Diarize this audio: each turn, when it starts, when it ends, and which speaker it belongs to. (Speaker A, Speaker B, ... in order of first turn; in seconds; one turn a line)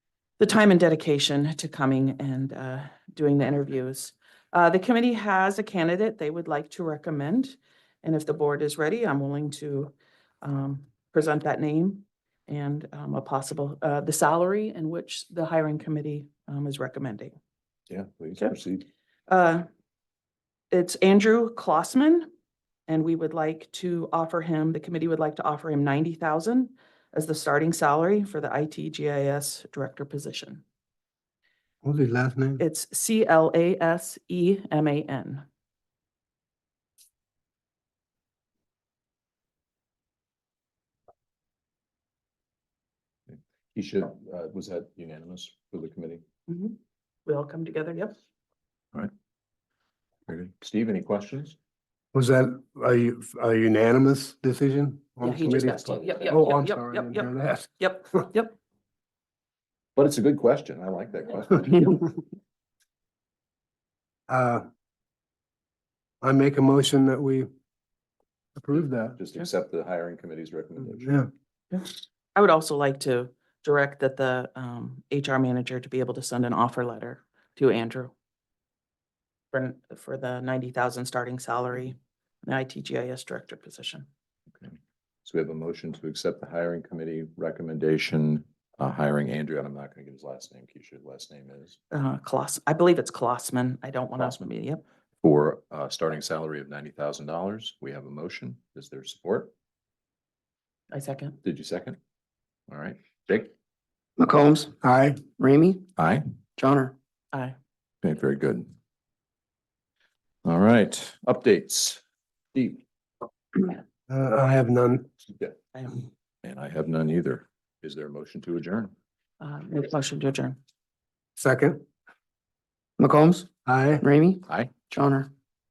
Speaker A: 0.4-17.3
Speaker B: 17.9-18.9
Speaker A: 19.3-19.7
Speaker A: 20.7-22.3
Speaker A: 22.9-30.6
Speaker C: 31.8-32.6
Speaker A: 32.6-35.4
Speaker B: 43.3-46.2
Speaker A: 46.5-48.2
Speaker B: 50.3-51.5
Speaker C: 52.1-58.2
Speaker A: 55.2-58.5
Speaker B: 60.0-62.1
Speaker C: 64.3-64.6
Speaker C: 66.2-67.5
Speaker C: 68.5-69.2
Speaker B: 69.2-71.1
Speaker C: 71.0-71.3
Speaker A: 71.7-78.1
Speaker A: 79.5-84.1
Speaker B: 84.6-91.8
Speaker A: 91.9-94.8
Speaker B: 95.2-99.5
Speaker A: 100.9-101.4
Speaker B: 101.4-102.0
Speaker B: 102.7-103.5
Speaker D: 104.2-105.9
Speaker C: 104.8-105.2
Speaker B: 106.0-106.2
Speaker D: 106.6-106.9
Speaker B: 108.0-108.7
Speaker B: 110.4-112.0
Speaker B: 112.5-112.8
Speaker C: 114.1-115.1
Speaker A: 115.7-116.0
Speaker B: 116.4-118.9
Speaker A: 119.4-120.6
Speaker C: 121.4-121.8
Speaker D: 123.0-123.5
Speaker C: 123.7-124.0
Speaker D: 124.0-125.3
Speaker B: 124.5-124.7